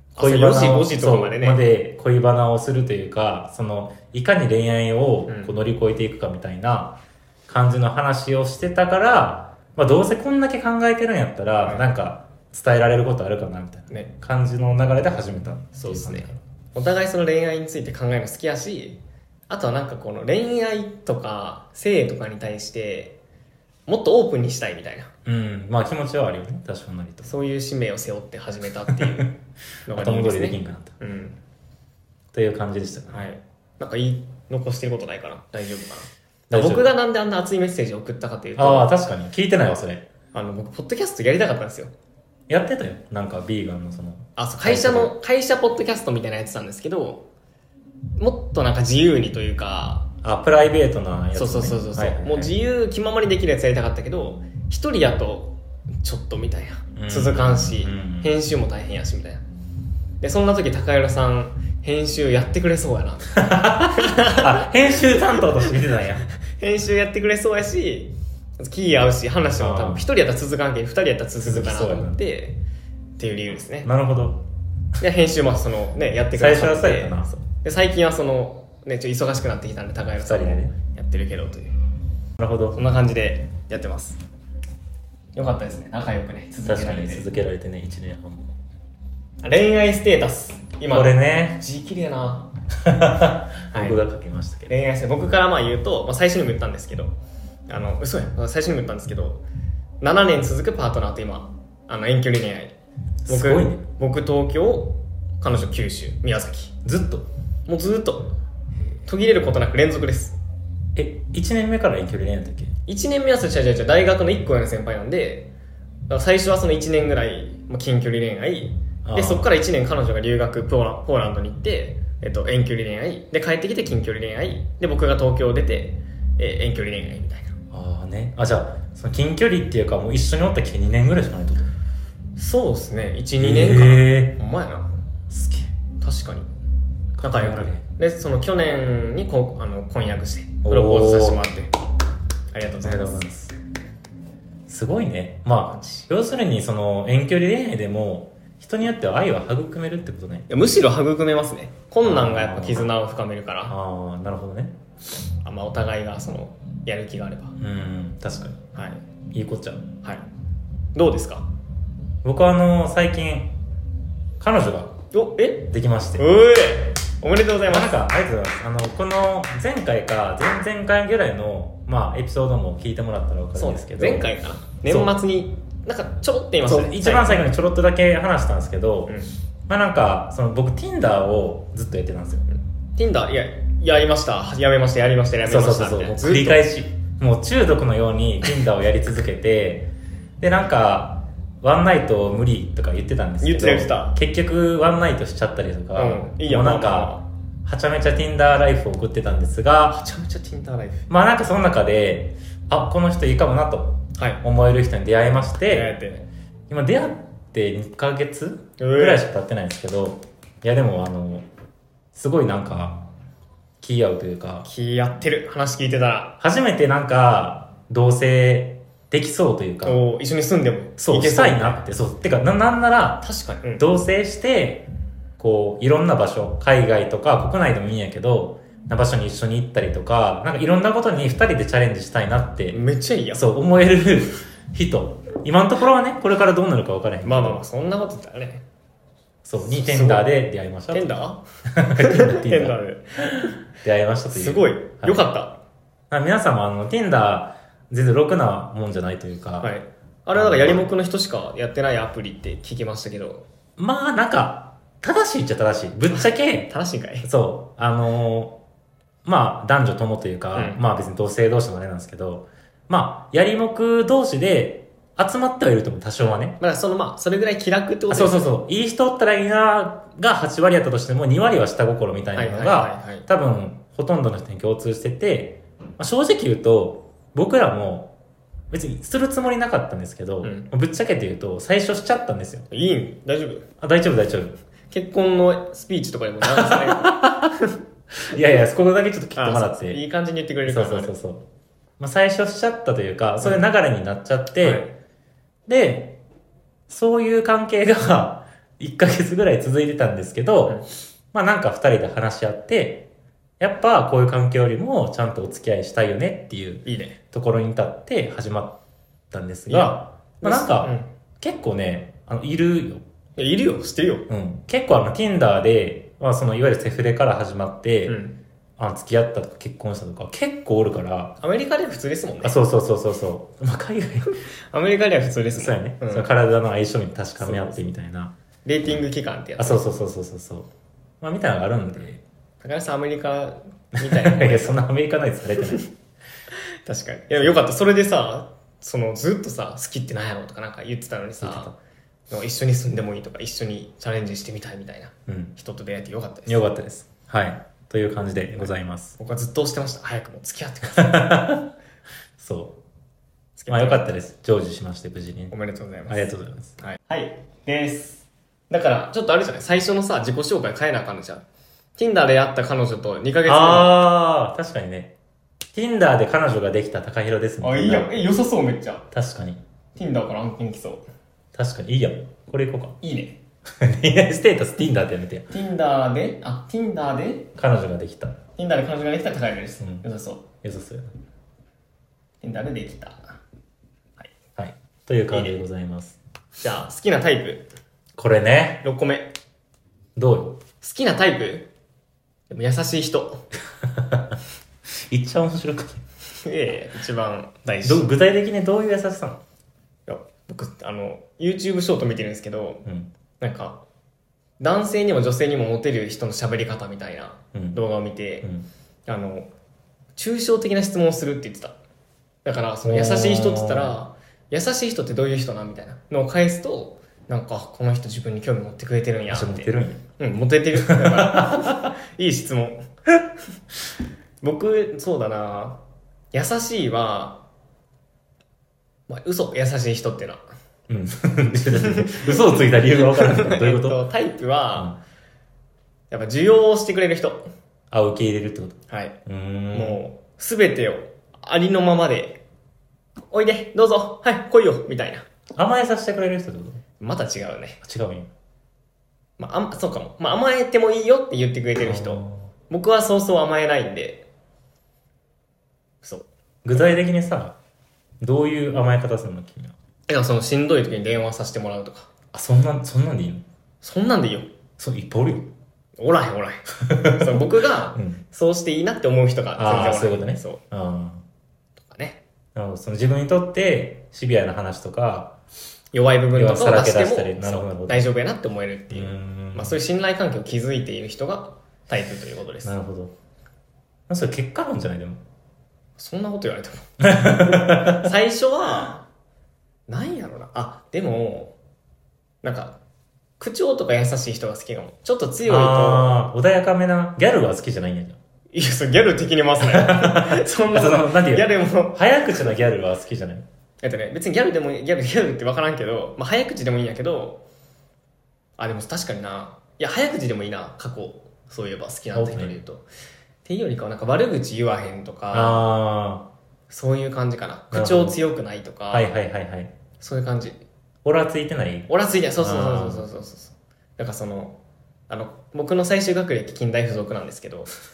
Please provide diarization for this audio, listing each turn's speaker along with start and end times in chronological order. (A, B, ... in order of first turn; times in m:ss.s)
0:00.2-0:01.6 A
0:00.2-0:16.4 B
0:05.3-0:05.6 A
0:15.8-0:23.2 A
0:23.9-0:25.1 A
0:25.2-0:27.3 B
0:27.2-0:29.3 A
0:29.9-0:30.9 B
0:29.9-0:31.4 A
0:32.3-0:33.2 B
0:33.1-0:38.9 A
0:36.5-0:36.9 B
0:38.6-0:40.1 B
0:40.3-0:41.9 A
0:42.5-0:45.1 B
0:44.4-0:47.3 A
0:48.2-0:50.1 A
0:50.2-0:52.6 B
0:51.3-0:59.4 A
0:56.9-0:58.3 B
1:00.2-1:05.4 A
1:03.4-1:06.3 B
1:06.4-1:12.6 A
1:09.6-1:10.1 B
1:11.4-1:12.2 B
1:13.2-1:13.9 A
1:13.8-1:14.4 B
1:15.0-1:21.8 A
1:16.3-1:17.3 B
1:20.2-1:20.8 B
1:22.4-1:22.8 B
1:22.7-1:24.2 A
1:25.4-1:27.2 A
1:26.6-1:28.6 B
1:29.4-1:32.5 A
1:30.9-1:31.6 B
1:32.8-1:34.8 B
1:33.7-1:34.0 A
1:34.7-1:37.1 A
1:37.7-1:39.4 A
1:40.0-1:42.7 A
1:43.2-1:43.8 B
1:43.3-1:46.7 A
1:46.8-1:47.3 B
1:47.7-1:48.3 A
1:49.1-1:50.4 A
1:51.0-1:52.8 B
1:52.8-1:55.5 A
1:56.1-2:07.6 A
1:59.0-1:59.5 B
2:07.7-2:11.7 B
2:12.4-2:15.0 A
2:13.4-2:14.4 B
2:15.3-2:15.7 B
2:16.0-2:16.5 A
2:17.2-2:17.8 B
2:17.2-2:21.7 A
2:20.6-2:21.4 B
2:22.5-2:23.2 A
2:22.8-2:23.5 B
2:24.7-2:30.5 B
2:25.7-2:26.1 A
2:30.5-2:33.7 A
2:32.0-2:32.9 B
2:33.7-2:34.8 B
2:35.4-2:37.6 A
2:37.6-2:38.6 B
2:38.7-2:39.0 A
2:39.3-2:39.9 B
2:40.9-2:41.5 A
2:42.2-2:43.6 B
2:44.4-2:45.0 B
2:45.1-2:47.9 A
2:45.7-2:46.3 B
2:47.7-2:54.3 B
2:53.6-2:57.5 A
2:54.8-2:55.1 B
2:56.6-2:59.2 B
2:59.1-2:59.3 A
2:59.7-3:02.5 B
3:03.0-3:06.6 A
3:05.4-3:20.0 B
3:13.4-3:14.2 A
3:15.9-3:17.2 A
3:19.9-3:21.1 A
3:21.1-3:25.9 B
3:24.2-3:24.4 A
3:25.7-3:26.3 A
3:26.7-3:31.5 B
3:28.8-3:29.2 A
3:32.1-3:33.0 B
3:33.8-3:34.7 B
3:34.6-3:36.4 A
3:36.4-3:40.0 B
3:39.8-3:41.8 A
3:41.0-3:43.2 B
3:43.2-3:43.8 A
3:43.8-3:44.9 B
3:45.4-3:52.8 B
3:52.7-3:53.4 A
3:53.3-3:57.6 B
3:57.2-3:58.6 A
3:59.4-4:01.2 B
3:59.6-4:00.3 A
4:00.9-4:03.6 A
4:01.7-4:02.8 B
4:03.4-4:05.3 B
4:04.3-4:05.6 A
4:06.1-4:09.7 B
4:09.6-4:13.4 A
4:10.3-4:10.9 B
4:13.8-4:16.7 B
4:16.1-4:17.3 A
4:17.2-4:18.6 B
4:19.2-4:26.6 B
4:20.5-4:20.8 A
4:26.6-4:28.5 A
4:28.1-4:38.1 B
4:32.3-4:33.3 A
4:38.7-4:42.7 B
4:40.4-4:40.7 A
4:42.7-4:43.7 A
4:43.8-4:44.6 B
4:44.9-4:47.7 A
4:46.4-4:47.5 B
4:48.2-4:50.0 B
4:49.4-4:51.1 A
4:50.7-4:51.4 B
4:52.0-4:54.8 B
4:54.6-4:54.9 A
4:55.7-4:56.2 B
4:56.9-5:03.1 B
5:03.6-5:08.8 B
5:06.8-5:07.2 A
5:09.3-5:13.0 B
5:09.7-5:11.1 A
5:13.4-5:14.3 A
5:14.3-5:18.2 B
5:18.1-5:18.4 A
5:18.8-5:21.4 B
5:21.4-5:22.6 A
5:22.4-5:24.4 B
5:24.3-5:26.3 A
5:25.5-5:28.3 B
5:27.4-5:27.8 A
5:28.6-5:29.8 A
5:29.6-5:30.7 B
5:31.2-5:32.2 B
5:32.6-5:34.8 A
5:34.0-5:35.9 B
5:36.8-5:41.7 A
5:41.4-5:41.7 B
5:42.3-5:46.7 A
5:45.3-5:45.6 B
5:46.5-5:49.2 B
5:49.2-5:51.4 A
5:50.9-5:51.7 B
5:52.4-5:52.8 B
5:53.6-5:54.0 A
5:53.7-5:55.5 B
5:55.5-6:01.4 A
5:56.1-5:56.8 B
6:02.0-6:04.0 A
6:03.4-6:05.1 B
6:05.7-6:08.1 B
6:07.6-6:09.1 A
6:09.1-6:09.6 B
6:09.9-6:11.0 A
6:11.5-6:13.0 B
6:13.0-6:13.4 A
6:13.7-6:15.5 B
6:15.5-6:17.5 A
6:17.6-6:18.4 B
6:18.6-6:20.4 A
6:19.8-6:20.0 B
6:20.6-6:21.1 B
6:22.4-6:23.4 A
6:24.6-6:26.2 B
6:25.3-6:25.6 A
6:26.6-6:27.7 A
6:28.2-6:28.8 B
6:28.8-6:29.3 A
6:30.2-6:30.6 B
6:30.8-6:31.7 A
6:32.5-6:33.5 A
6:33.8-6:34.4 B
6:35.1-6:36.0 B
6:36.4-6:38.1 A
6:37.8-6:39.4 B
6:40.1-6:42.8 A
6:43.4-6:43.8 A
6:44.6-6:48.5 A
6:47.5-6:47.8 B
6:48.4-6:48.7 B
6:49.1-6:49.5 A
6:50.2-6:51.8 A
6:52.4-7:02.9 A
6:52.8-6:53.9 B
6:59.3-7:00.0 B
7:00.8-7:01.9 B
7:04.4-7:05.8 A
7:06.3-7:07.4 A
7:09.1-7:10.4 A
7:10.9-7:14.0 B
7:11.7-7:15.0 A
7:16.1-7:17.5 A
7:17.9-7:20.0 B
7:18.9-7:19.2 A
7:19.7-7:22.4 A
7:23.3-7:25.2 A
7:25.6-7:26.8 B
7:27.0-7:27.8 A
7:27.8-7:28.3 B
7:29.4-7:34.2 A
7:31.8-7:32.5 B
7:36.0-7:36.9 A
7:36.6-7:37.6 B
7:38.2-7:39.7 B
7:40.1-7:42.1 A
7:42.3-7:43.4 B
7:43.8-7:44.5 A
7:44.8-7:45.5 B
7:46.0-7:50.6 A
7:46.8-7:48.2 B
7:49.6-7:51.2 B
7:51.8-7:52.2 A
7:52.6-7:55.4 B
7:55.9-8:02.7 A
7:56.3-7:58.1 B
7:58.9-7:59.8 B
8:02.6-8:03.1 B
8:04.1-8:05.2 B
8:06.0-8:09.1 A
8:07.0-8:08.1 B
8:09.9-8:11.6 A
8:12.4-8:12.8 A
8:13.4-8:16.2 A
8:15.4-8:18.2 B
8:18.5-8:22.5 A
8:19.6-8:23.4 B
8:23.8-8:27.4 A
8:28.6-8:32.9 A
8:32.1-8:32.6 B
8:33.4-8:35.6 A
8:35.3-8:36.3 B
8:36.7-8:39.1 A
8:37.7-8:38.2 B
8:38.9-8:39.7 B
8:40.0-8:40.6 A
8:41.0-8:43.1 B
8:41.9-8:44.6 A
8:45.1-8:47.7 A